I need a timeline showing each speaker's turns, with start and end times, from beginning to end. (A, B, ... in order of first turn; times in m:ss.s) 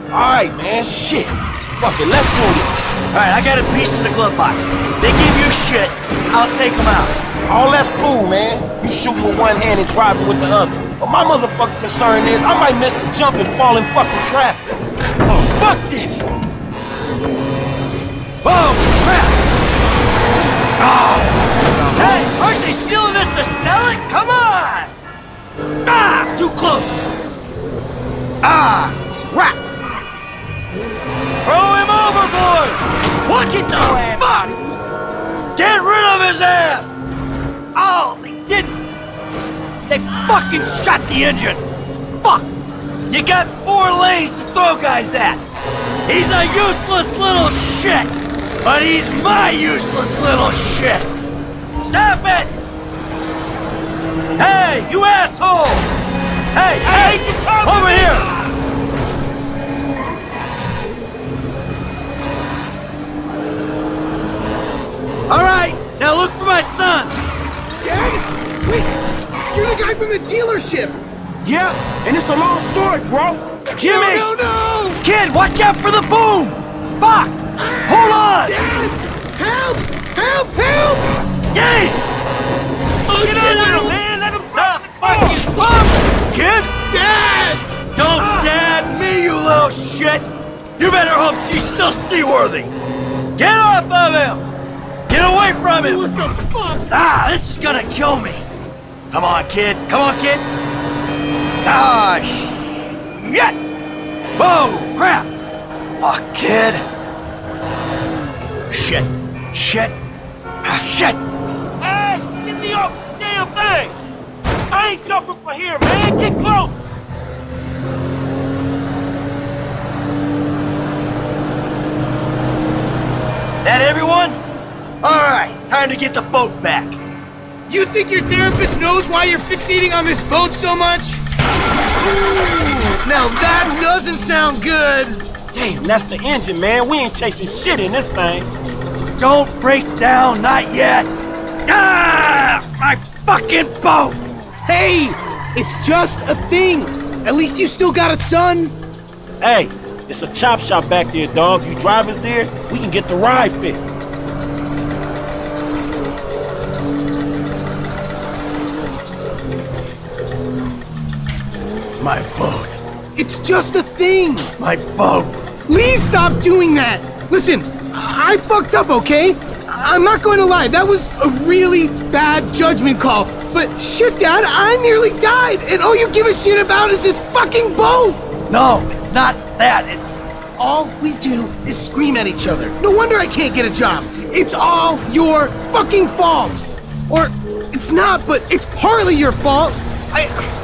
0:00.1-0:02.9 A
0:03.1-0:07.2 B
0:07.5-0:14.7 A
0:15.2-0:16.2 A
0:18.4-0:19.4 B
0:20.8-0:24.9 B
0:25.8-0:27.1 B
0:28.4-0:29.6 B
0:31.4-0:34.5 B
0:33.2-0:34.8 A
0:35.5-0:37.0 B
0:37.7-0:38.8 B
0:39.8-0:41.6 B
0:42.2-0:42.5 B
0:43.1-0:45.4 B
0:46.0-0:48.1 B
0:48.6-0:51.1 B
0:51.8-0:52.5 B
0:54.4-0:55.9 B
0:56.5-0:58.3 B
0:56.8-0:58.3 A
1:05.3-1:07.2 B
1:07.8-1:08.9 C
1:09.5-1:11.0 C
1:11.4-1:13.5 A
1:13.7-1:15.0 C
1:13.8-1:14.3 B
1:15.0-1:18.6 B
1:17.6-1:21.0 C
1:21.5-1:22.0 B
1:23.0-1:24.0 C
1:23.2-1:25.5 A
1:24.5-1:26.7 B
1:26.8-1:27.7 C
1:27.9-1:30.3 B
1:30.8-1:32.7 B
1:33.4-1:34.4 B
1:35.1-1:36.1 B
1:35.8-1:36.9 C
1:36.9-1:38.4 B
1:39.1-1:40.4 B
1:41.6-1:43.6 B
1:44.4-1:45.3 B
1:46.0-1:46.8 B
1:48.7-1:49.9 B
1:50.6-1:51.2 B
1:51.8-1:53.9 A
1:54.7-1:56.8 A
2:03.6-2:04.4 B
2:05.0-2:07.0 B
2:07.7-2:11.2 C
2:13.0-2:15.2 C
2:15.5-2:18.5 A
2:19.2-2:21.1 B
2:21.6-2:24.2 B
2:24.6-2:28.7 C
2:29.4-2:33.9 A
2:42.0-2:42.8 B
2:43.2-2:44.5 C
2:44.6-2:45.5 B
2:45.6-2:58.2 C
2:58.5-3:00.2 B
3:00.6-3:10.4 C